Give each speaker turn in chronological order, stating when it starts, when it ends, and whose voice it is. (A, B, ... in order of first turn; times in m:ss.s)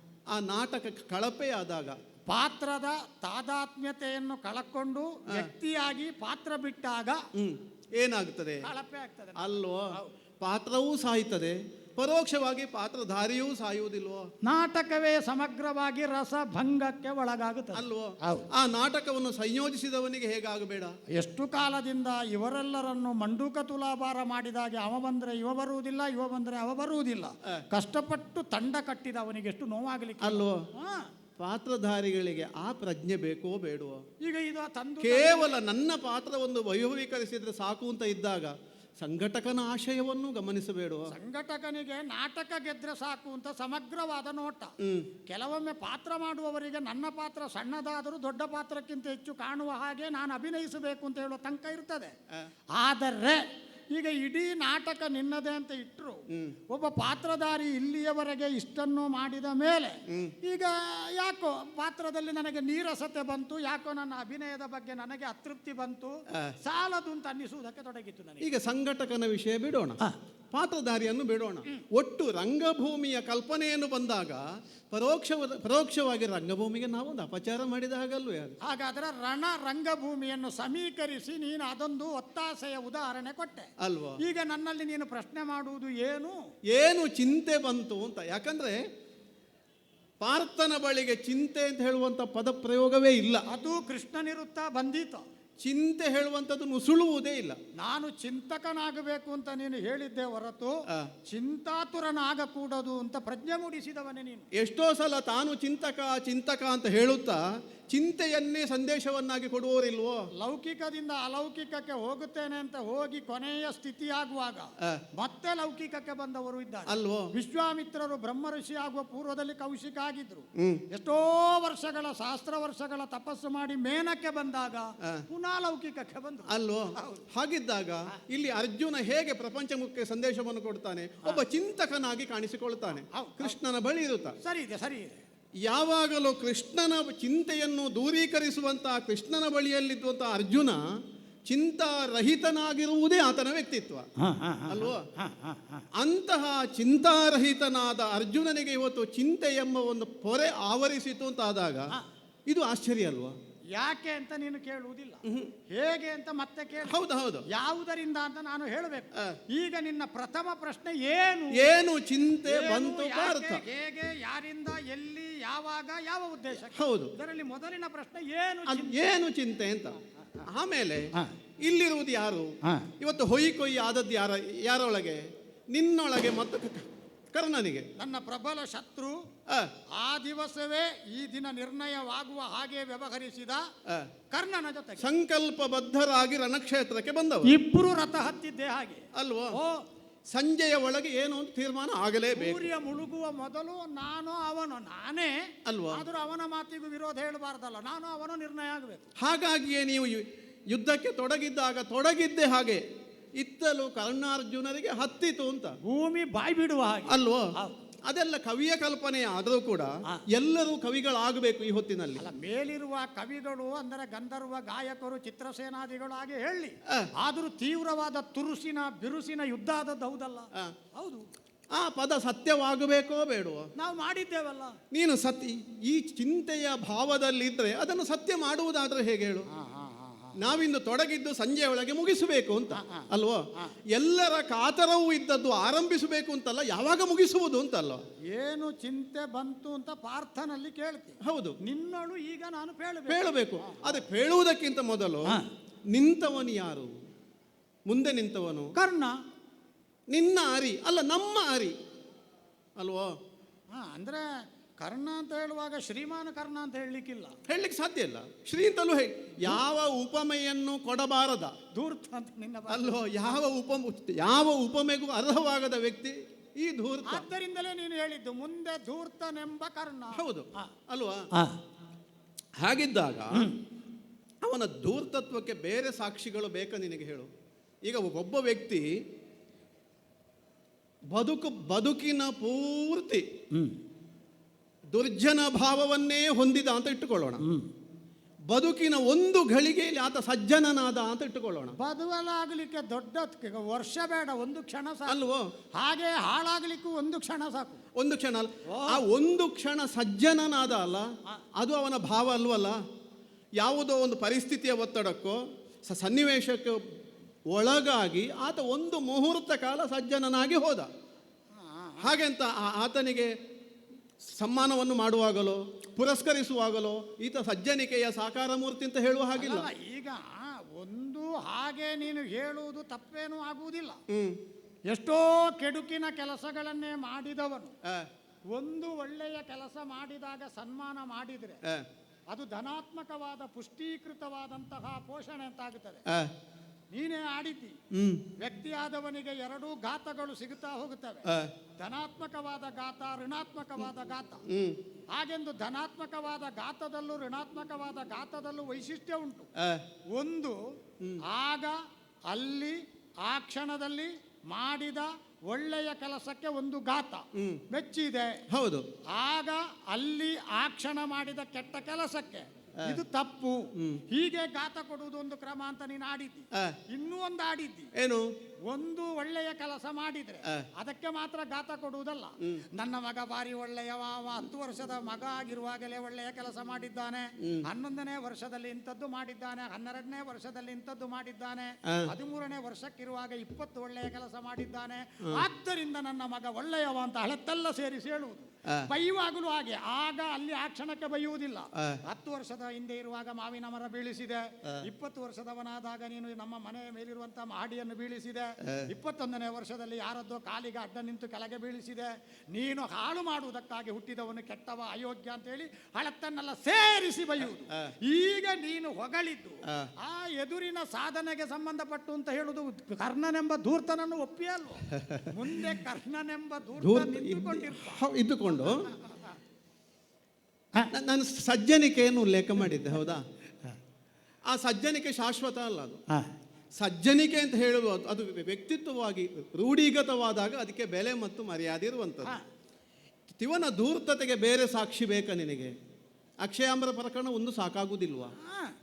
0:00.3-0:02.0 A
0:02.3-0:07.2 B
0:07.4-0:08.6 A
0:08.6-0:10.1 B
0:09.4-0:09.9 A
0:10.4-0:14.2 A
0:14.4-0:18.5 B
0:17.7-0:20.9 A
0:21.1-0:31.1 B
0:30.2-0:30.6 A
0:31.4-0:34.0 A
0:34.2-0:35.6 B
0:35.0-0:41.1 A
0:41.1-0:44.7 B
0:44.8-0:45.1 A
0:45.3-0:52.1 B
0:52.8-1:08.4 B
0:56.3-0:56.6 A
1:00.1-1:00.3 A
1:08.4-1:10.0 A
1:10.5-1:18.6 A
1:18.6-1:23.7 B
1:23.8-1:24.2 A
1:24.2-1:26.4 B
1:26.7-1:28.8 A
1:30.2-1:33.4 A
1:33.5-1:35.2 B
1:35.6-1:37.6 A
1:37.8-1:40.7 B
1:41.3-1:44.4 B
1:44.6-1:50.2 A
1:50.4-2:07.2 B
1:56.9-1:57.3 A
2:00.6-2:00.8 A
2:06.5-2:14.3 A
2:13.1-2:13.6 B
2:14.4-2:15.2 B
2:15.6-2:20.8 A
2:21.5-2:24.0 A
2:24.2-2:25.8 B
2:24.7-2:25.0 A
2:26.0-2:31.9 A
2:32.5-2:33.3 A
2:33.7-2:37.0 B
2:35.2-2:35.5 A
2:36.9-2:37.4 A
2:37.5-2:41.7 B
2:41.5-2:43.6 A
2:42.4-2:49.0 B
2:46.7-2:47.1 A
2:48.7-2:50.0 A
2:50.5-2:51.1 A
2:51.6-2:57.9 A
2:52.6-2:52.9 B
2:58.0-2:59.2 B
3:00.0-3:03.6 B
3:04.3-3:05.1 B
3:05.0-3:07.5 A
3:07.4-3:09.8 B
3:09.1-3:09.6 A
3:10.3-3:12.7 A
3:12.3-3:15.4 B
3:15.6-3:16.0 A
3:15.9-3:19.1 B
3:19.2-3:22.8 A
3:23.4-3:25.8 A
3:25.8-3:27.8 B
3:27.1-3:27.5 A
3:28.1-3:32.2 A
3:32.2-3:41.3 B
3:41.8-3:43.7 A
3:43.8-3:44.8 B
3:44.9-3:49.5 A
3:49.5-3:50.4 B
3:50.4-3:58.0 A
3:52.7-3:53.7 B
3:58.3-4:04.0 B
4:01.2-4:01.6 A
4:03.1-4:05.4 A
4:05.9-4:06.9 A
4:07.9-4:08.7 A
4:08.8-4:09.2 B
4:10.1-4:11.7 A
4:12.8-4:13.1 A
4:13.7-4:14.3 B
4:14.8-4:17.4 B
4:17.5-4:21.5 A
4:21.7-4:23.3 B
4:22.7-4:27.2 A
4:27.0-4:30.7 B
4:30.1-4:31.2 A
4:31.3-4:31.6 B
4:32.6-4:33.5 A
4:34.4-4:37.3 A
4:37.8-4:38.9 A
4:41.1-4:43.2 A
4:44.9-4:47.4 A
4:48.5-4:51.8 A
4:51.8-4:55.2 B
4:55.1-4:55.4 A
4:55.8-4:57.8 B
4:58.0-5:01.0 A
4:58.7-4:59.0 B
5:01.6-5:02.8 A
5:03.6-5:06.8 A
5:07.5-5:10.9 A
5:11.6-5:12.1 B
5:12.0-5:13.3 A
5:14.2-5:19.7 A
5:19.4-5:24.0 B
5:24.1-5:24.4 A
5:24.9-5:27.7 B
5:28.5-5:31.6 B
5:32.3-5:36.0 B
5:36.1-5:36.3 A
5:36.9-5:37.8 B
5:37.9-5:38.3 A
5:38.4-5:44.4 B
5:41.2-5:41.5 A
5:44.5-5:44.8 A
5:45.1-5:49.5 B
5:49.6-5:49.8 A
5:50.1-5:50.6 B
5:51.3-5:51.8 B
5:52.3-5:58.4 B
5:57.4-5:57.6 A
5:58.5-5:58.8 A
5:59.1-6:07.9 B
6:03.8-6:04.0 A
6:07.9-6:08.2 A
6:08.7-6:58.0 B
6:38.6-6:38.9 A
6:54.9-6:55.6 A
6:56.8-6:58.9 A
6:58.7-6:59.4 B
7:00.9-7:03.2 A
7:04.5-7:06.0 A
7:06.8-7:12.3 A
7:13.4-7:15.7 A
7:16.4-7:18.3 A
7:18.4-7:18.7 B